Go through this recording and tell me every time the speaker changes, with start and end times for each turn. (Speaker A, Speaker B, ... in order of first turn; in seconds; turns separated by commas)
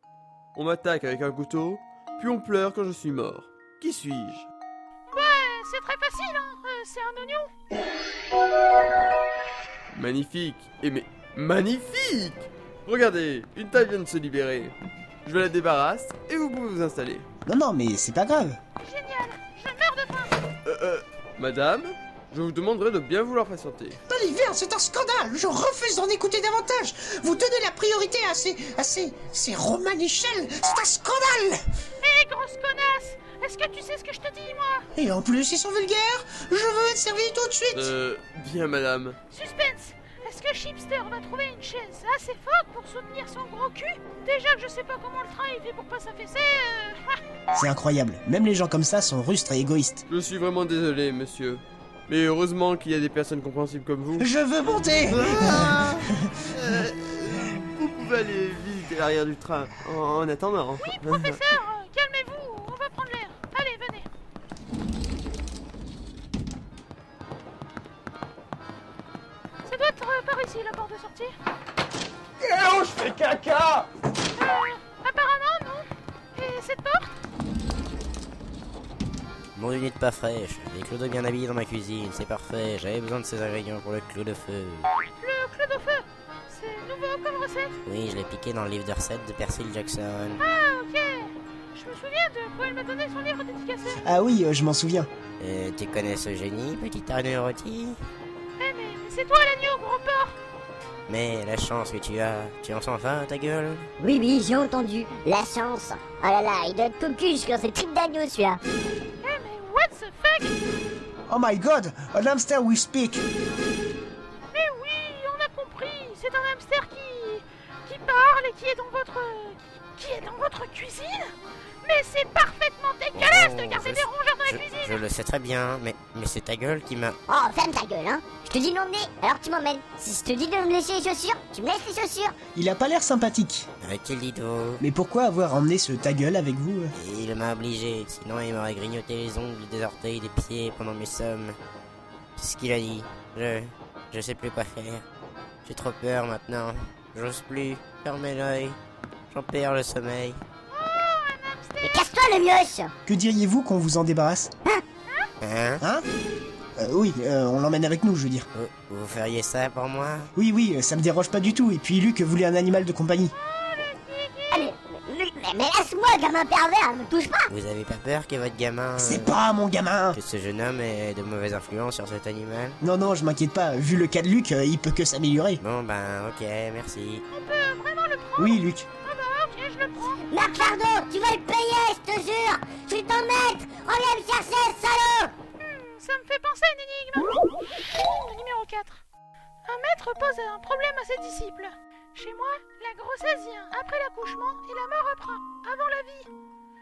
Speaker A: 0.5-4.5, Speaker B: 5.1-7.5, Speaker A: 9.9-17.2, Speaker C: 17.4-18.6, Speaker B: 18.8-20.4, Speaker A: 20.6-24.0, Speaker C: 24.1-31.6, Speaker B: 32.0-34.9, Speaker C: 34.9-37.9, Speaker A: 37.7-39.2, Speaker B: 39.3-47.2, Speaker C: 47.5-50.0, Speaker A: 50.1-54.3, Speaker C: 54.2-56.3, Speaker A: 55.1-61.4, Speaker B: 60.8-64.1, Speaker B: 69.6-71.3, Speaker A: 72.9-73.4, Speaker B: 74.3-77.2, Speaker D: 79.5-84.9, Speaker B: 85.2-87.8, Speaker D: 87.8-90.4, Speaker B: 90.4-94.0, Speaker C: 94.0-95.1, Speaker D: 95.4-98.0, Speaker B: 98.6-100.4, Speaker D: 101.1-103.9, Speaker E: 104.0-108.6, Speaker B: 109.2-110.5, Speaker C: 111.3-113.2, Speaker B: 114.5-125.0, Speaker D: 123.1-127.2, Speaker E: 127.3-132.3, Speaker C: 132.5-133.7, Speaker D: 133.8-134.8, Speaker C: 134.8-136.9, Speaker D: 136.9-141.6, Speaker D: 142.4-145.0, Speaker D: 145.6-148.8, Speaker D: 149.3-150.4, Speaker B: 150.7-152.2, Speaker E: 151.8-152.9, Speaker C: 153.0-154.5, Speaker D: 155.4-155.8, Speaker C: 155.8-156.0, Speaker C: 156.8-158.5, Speaker D: 158.5-160.3, Speaker C: 160.3-163.3, Speaker B: 163.3-164.7, Speaker E: 164.5-167.5, Speaker D: 167.5-169.4, Speaker C: 168.9-170.2, Speaker D: 170.1-172.8, Speaker C: 172.8-175.6, Speaker D: 175.6-177.2, Speaker B: 177.3-180.2, Speaker C: 178.4-178.9, Speaker E: 180.3-185.3, Speaker B: 185.6-189.0, Speaker B: 189.6-196.3